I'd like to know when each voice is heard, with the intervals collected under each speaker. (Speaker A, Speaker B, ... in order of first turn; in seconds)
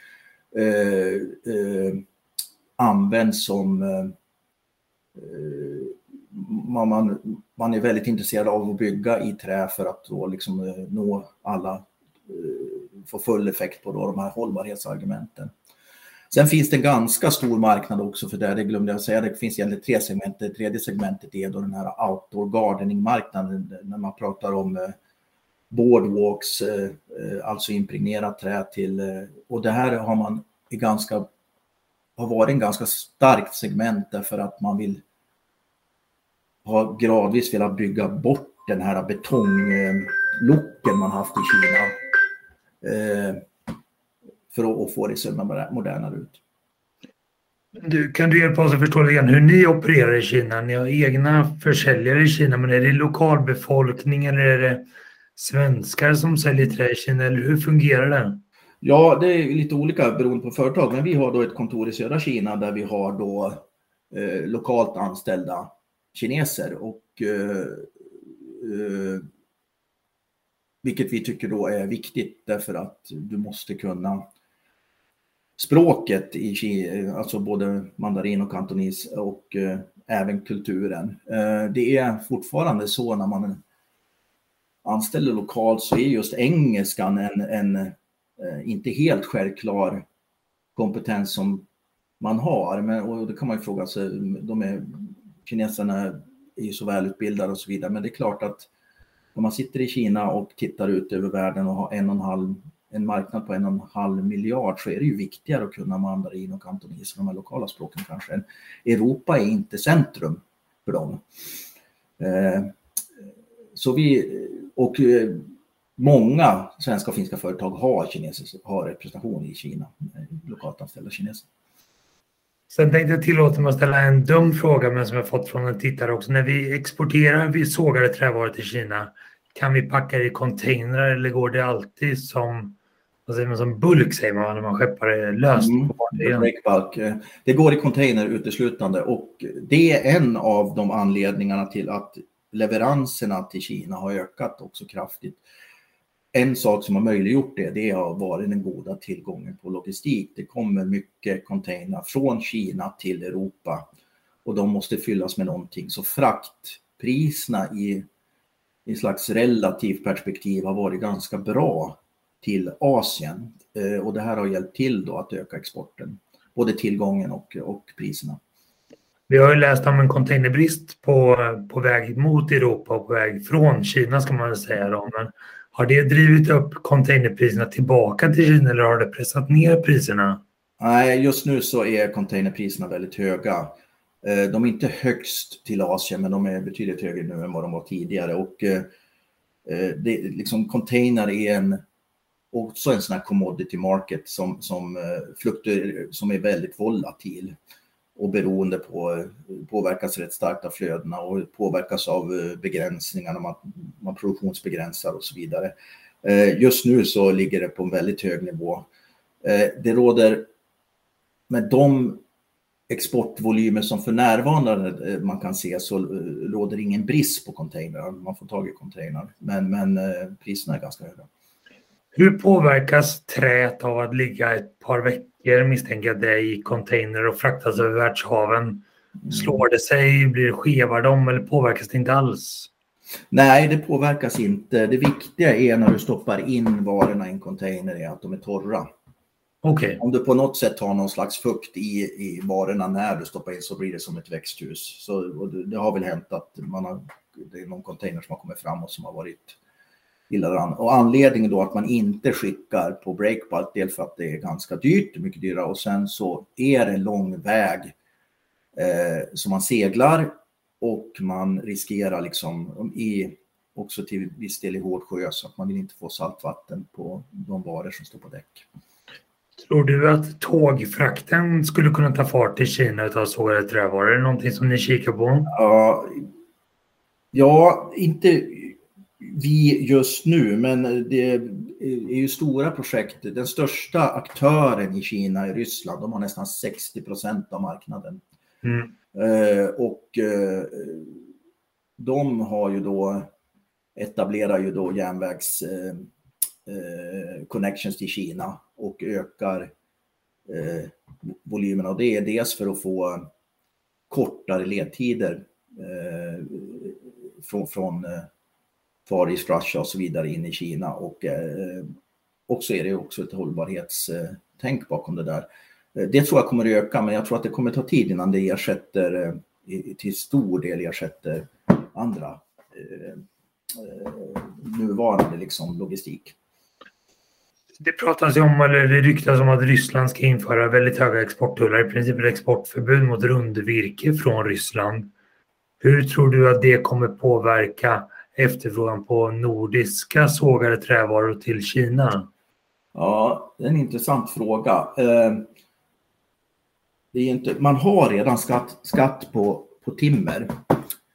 Speaker A: 0.5-2.0, 2.8-4.1, 5.1-15.5, 16.3-24.9, 25.7-31.3, 32.2-35.0, 36.6-42.0, 42.8-43.5, 44.5-46.4, 58.8-69.3, 70.8-74.3, 75.6-83.6, 84.8-90.0, 90.8-91.6, 92.2-98.7, 99.3-111.2, 112.2-112.8, 113.7-121.5, 135.6-145.4, 146.3-153.9, 154.4-158.1, 158.8-168.4, 180.8-188.9, 189.6-191.8, 192.5-197.6, 198.2-208.9, 209.4-210.5, 211.5-212.2, 212.9-221.3, 229.3-229.6, 233.3-238.9, 240.0-249.6, 250.3-257.9, 258.7-268.6, 275.5-276.3, 277.3-288.2, 289.1-291.2, 292.0-293.3, 293.9-296.1, 296.6-299.7, 300.5-303.3, 304.1-308.3, 309.1-311.9, 312.5-326.3, 342.9-345.5, 347.1-350.6
Speaker B: 47.8-58.4, 122.7-136.5, 169.3-180.4, 222.1-232.7, 239.6-240.0, 269.6-275.5, 327.8-335.1, 335.8-342.3